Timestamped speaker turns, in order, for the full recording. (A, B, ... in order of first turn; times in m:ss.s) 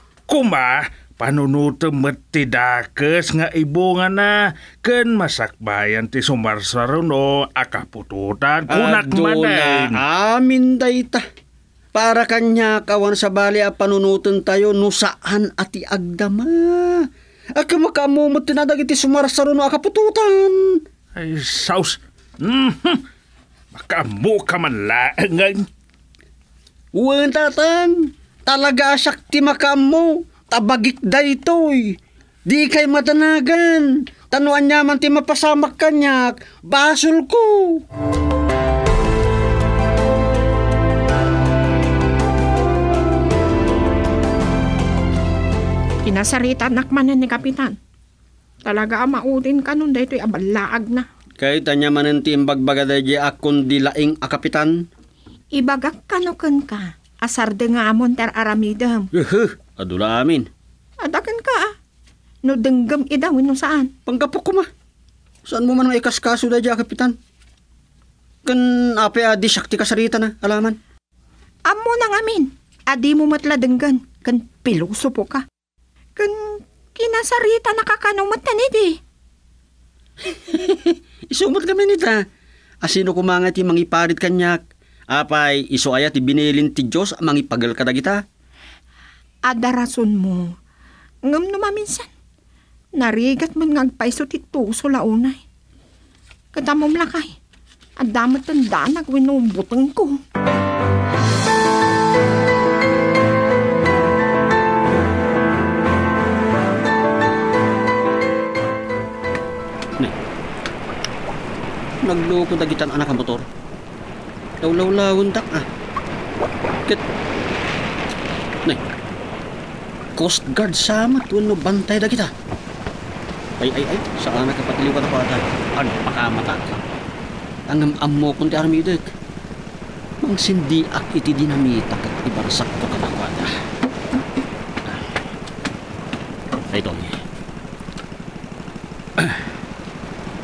0:00.3-0:10.0 A
0:08.7-0:11.2 B
0:11.9-0:20.8 B
0:21.1-0:23.0 A
0:23.7-0:25.7 A
0:26.9-0:37.8 B
0:46.0-0:47.8 C
0:48.6-0:51.0 C
0:51.4-0:54.9 B
0:55.5-0:59.1 C
0:59.1-1:00.5 B
1:01.0-1:01.7 C
1:02.4-1:03.9 C
1:04.0-1:04.7 B
1:05.5-1:07.2 B
1:08.4-1:10.8 B
1:11.7-1:15.4 C
1:16.2-1:19.0 C
1:20.2-1:22.2 B
1:22.8-1:24.6 B
1:25.1-1:28.2 B
1:29.5-1:30.5 C
1:31.2-1:32.1 C
1:33.0-1:35.4 C
1:36.5-1:37.3 C
1:38.0-1:40.2 C
1:52.0-1:53.4 B
1:54.6-1:55.7 B
2:00.2-2:02.3 B
2:03.6-2:06.8 B
2:07.7-2:09.1 B
2:10.2-2:13.5 B
2:16.7-2:17.2 B
2:19.2-2:19.4 B